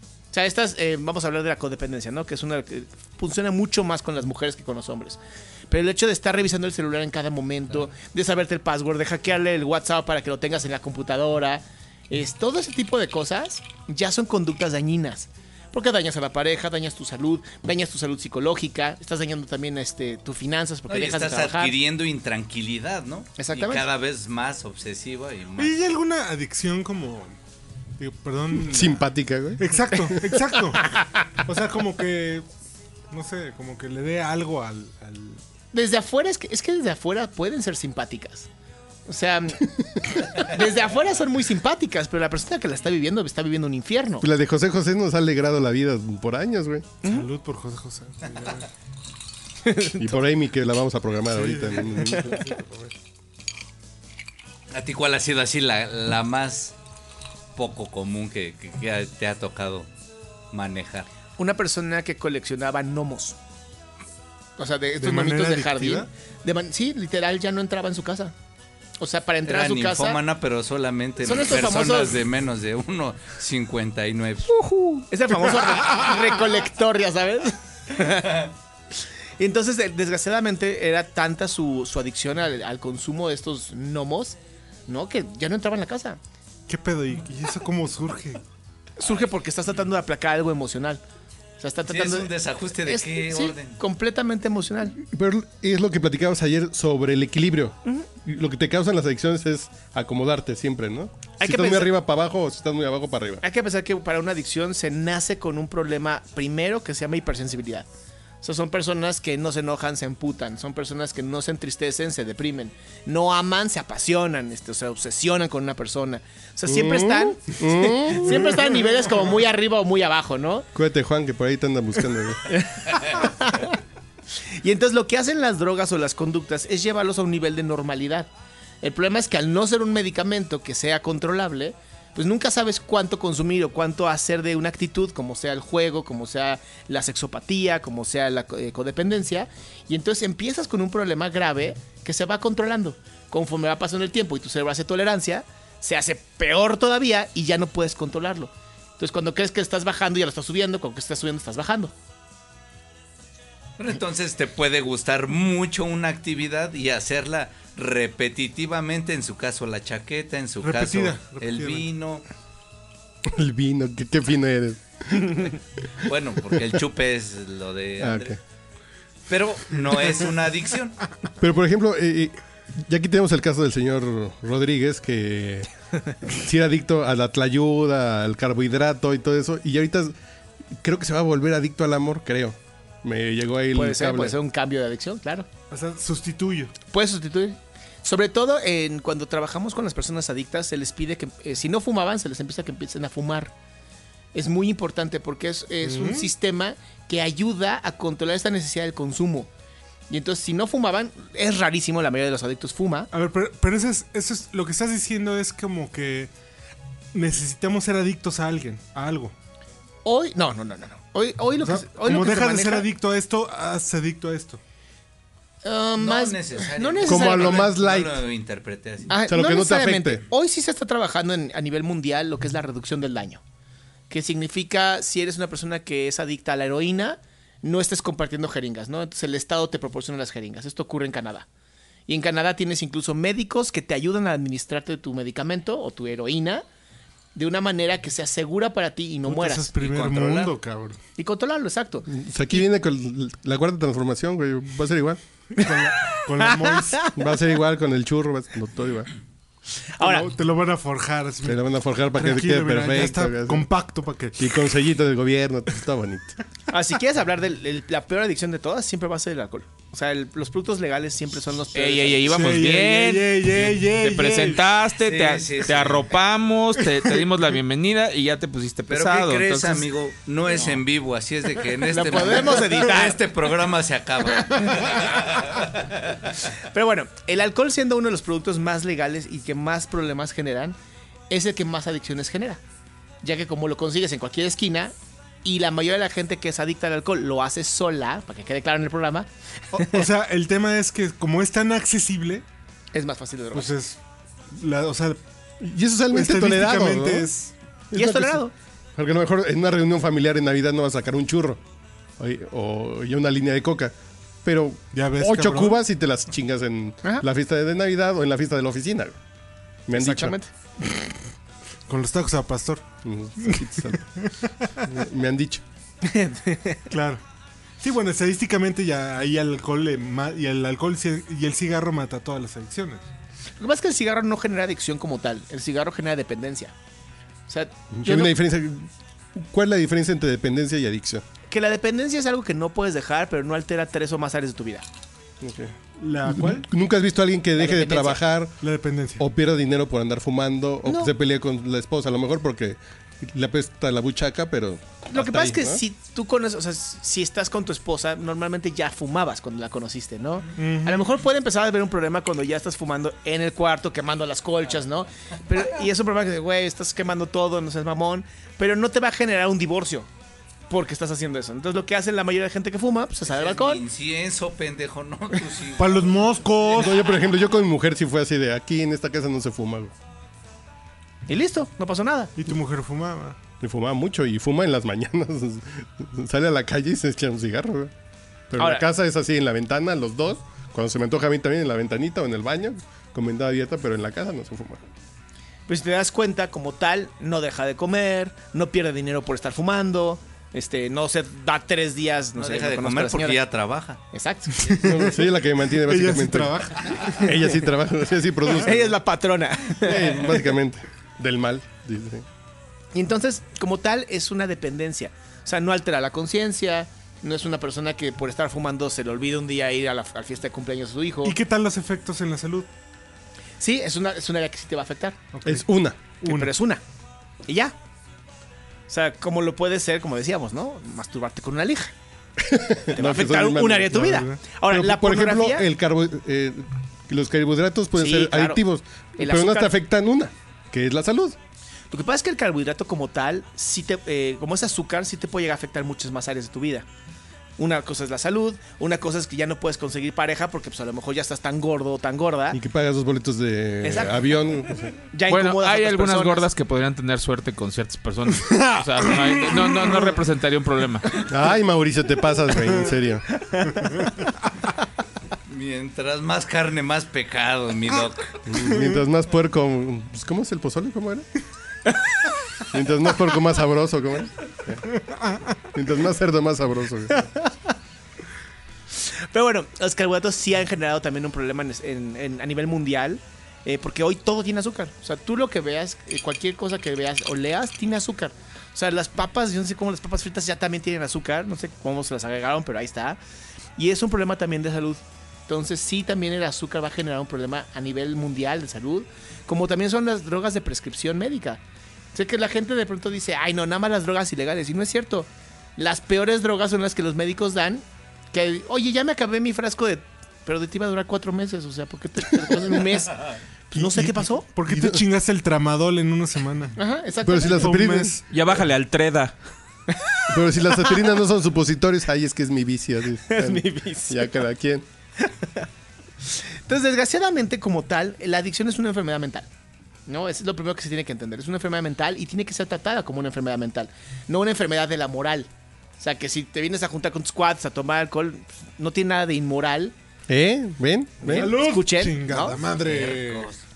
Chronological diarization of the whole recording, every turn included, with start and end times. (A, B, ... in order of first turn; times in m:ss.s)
0:00.3-0:21.7 A
0:20.9-0:25.8 B
0:23.4-0:23.8 A
0:25.6-0:27.3 C
0:28.0-0:29.0 C
0:28.6-0:31.0 D
0:29.6-0:32.4 C
0:33.1-0:35.4 C
0:35.7-0:38.5 A
0:39.0-0:44.3 A
0:44.2-0:46.9 D
0:47.0-0:48.7 C
0:49.6-0:50.2 A
0:50.0-0:52.5 D
0:51.3-0:52.9 C
0:54.7-0:56.7 B
0:57.5-0:59.9 B
1:00.5-1:01.1 B
1:01.4-1:03.4 A
1:04.6-1:08.3 A
1:05.0-1:06.1 C
1:09.0-1:10.2 A
1:09.4-1:14.5 B
1:11.2-1:12.2 A
1:14.5-1:18.5 A
1:19.4-1:24.4 A
1:24.9-1:26.2 A
1:26.7-1:28.4 C
1:29.0-1:31.0 A
1:31.6-1:32.3 A
1:31.9-1:33.8 B
1:32.8-1:35.0 A
1:35.0-1:43.4 D
1:41.4-1:41.9 A
1:43.4-1:47.9 A
1:48.4-2:00.7 A
1:56.6-1:58.5 D
2:00.7-2:02.4 D
2:02.5-2:03.8 A
2:04.4-2:08.3 A
2:08.8-2:31.9 A
2:33.8-2:42.2 B
2:40.6-2:41.9 C
2:43.2-2:45.5 D
2:46.0-2:48.4 B
2:48.0-2:48.4 D
2:49.3-2:51.0 B
2:51.4-2:55.7 D
2:56.2-3:00.1 D
3:00.8-3:04.4 D
3:03.7-3:05.5 A
3:05.7-3:06.7 C
3:06.9-3:13.5 A
3:14.3-3:19.5 A
3:15.8-3:16.3 C
3:20.1-3:23.1 A
3:23.1-3:26.3 C
3:27.1-3:29.3 C
3:30.0-3:32.9 A
3:31.6-3:34.6 C
3:35.6-3:37.7 A
3:36.0-3:39.1 B
3:37.0-3:38.2 D
3:39.1-3:43.4 A
3:39.3-3:40.2 D
3:44.1-3:51.4 A
3:52.1-3:56.6 A
3:57.3-3:59.7 A
3:59.2-4:01.0 C
3:59.8-4:00.5 B
4:01.2-4:02.6 A
4:02.0-4:05.2 D
4:05.6-4:07.1 C
4:05.6-4:07.1 A
4:07.1-4:09.1 D
4:10.0-4:10.3 A
4:10.0-4:14.5 C
4:11.4-4:13.7 D
4:14.3-4:16.4 D
4:16.7-4:22.4 A
4:21.7-4:29.9 E
4:22.2-4:24.7 C
4:25.0-4:26.1 B
4:28.9-4:36.0 B
4:31.9-4:33.2 A
4:34.5-4:35.0 C
4:36.6-4:40.8 A
4:41.3-4:42.6 A
4:43.2-4:50.0 A
4:49.7-4:52.4 C
4:52.9-4:53.7 A
4:53.5-4:54.0 C
4:54.5-4:55.2 C
4:55.6-4:57.3 D
4:56.1-4:57.5 C
4:57.9-4:58.4 D
4:57.9-4:58.5 A
4:58.9-5:01.6 D
5:02.2-5:09.2 D
5:04.9-5:05.8 C
5:09.9-5:10.4 D
5:09.9-5:10.5 A
5:11.9-5:12.8 C
5:13.0-5:14.0 D
5:13.4-5:14.5 C
5:14.8-5:15.6 D
5:16.0-5:16.9 A
5:16.9-5:17.2 C
5:17.8-5:23.0 C
5:23.6-5:26.7 A
5:27.5-5:28.3 A
5:27.9-5:31.2 D
5:31.5-5:34.8 A
5:35.4-5:38.6 D
5:36.0-5:36.7 C
5:37.6-5:38.2 A
5:38.6-5:39.2 C
5:39.2-5:45.8 D
5:40.8-5:41.1 A
5:45.1-6:00.1 A
5:50.6-5:51.2 C
6:00.7-6:03.8 A
6:03.3-6:06.4 B
6:05.8-6:07.1 C
6:06.7-6:09.9 D
6:11.3-6:12.3 A
6:12.4-6:13.4 C
6:13.6-6:17.9 D
6:18.5-6:24.8 D
6:18.6-6:18.8 A
6:25.7-6:33.4 A
6:32.4-6:34.0 B
6:34.1-6:34.8 A
6:34.7-6:35.2 C
6:34.8-6:38.9 D
6:35.8-6:37.4 C
6:38.6-6:40.3 A
6:39.8-6:42.2 D
6:42.9-6:51.4 A
6:51.2-6:52.7 C
6:53.6-6:55.2 A
6:55.3-6:55.7 C
6:55.4-6:56.0 D
6:56.2-6:56.8 A
6:56.2-6:56.5 C
6:57.4-6:57.7 A
6:58.9-7:01.9 A
7:02.4-7:11.4 D
7:02.9-7:05.6 A
7:03.9-7:04.4 C
7:08.0-7:08.6 A
7:09.2-7:09.7 A
7:11.9-7:16.8 A
7:17.6-7:22.6 A
7:22.5-7:25.0 D
7:23.8-7:24.3 A
7:25.1-7:26.5 A
7:25.3-7:31.2 E
7:28.3-7:30.2 C
7:31.3-7:33.2 D
7:33.4-7:34.0 A
7:33.9-7:34.2 C
7:35.5-7:38.4 B
7:38.4-7:41.3 D
7:38.5-7:39.0 C
7:42.7-7:44.8 D
7:45.1-7:45.4 C
7:45.7-7:47.3 D
7:47.1-7:47.5 A
7:49.0-8:03.2 A
8:03.8-8:11.6 A
8:12.1-8:24.4 A
8:24.5-8:26.8 C
8:24.7-8:25.0 D
8:26.8-8:27.7 A
8:27.2-8:28.2 D
8:27.5-8:28.3 C
8:28.3-8:29.3 E
8:30.3-8:34.8 D
8:33.3-8:34.3 A
8:35.2-8:35.6 A
8:36.2-8:39.5 A
8:40.1-8:49.9 A
8:50.3-8:51.5 D
8:51.2-8:52.6 A
8:51.3-8:53.5 C
8:52.8-8:53.6 B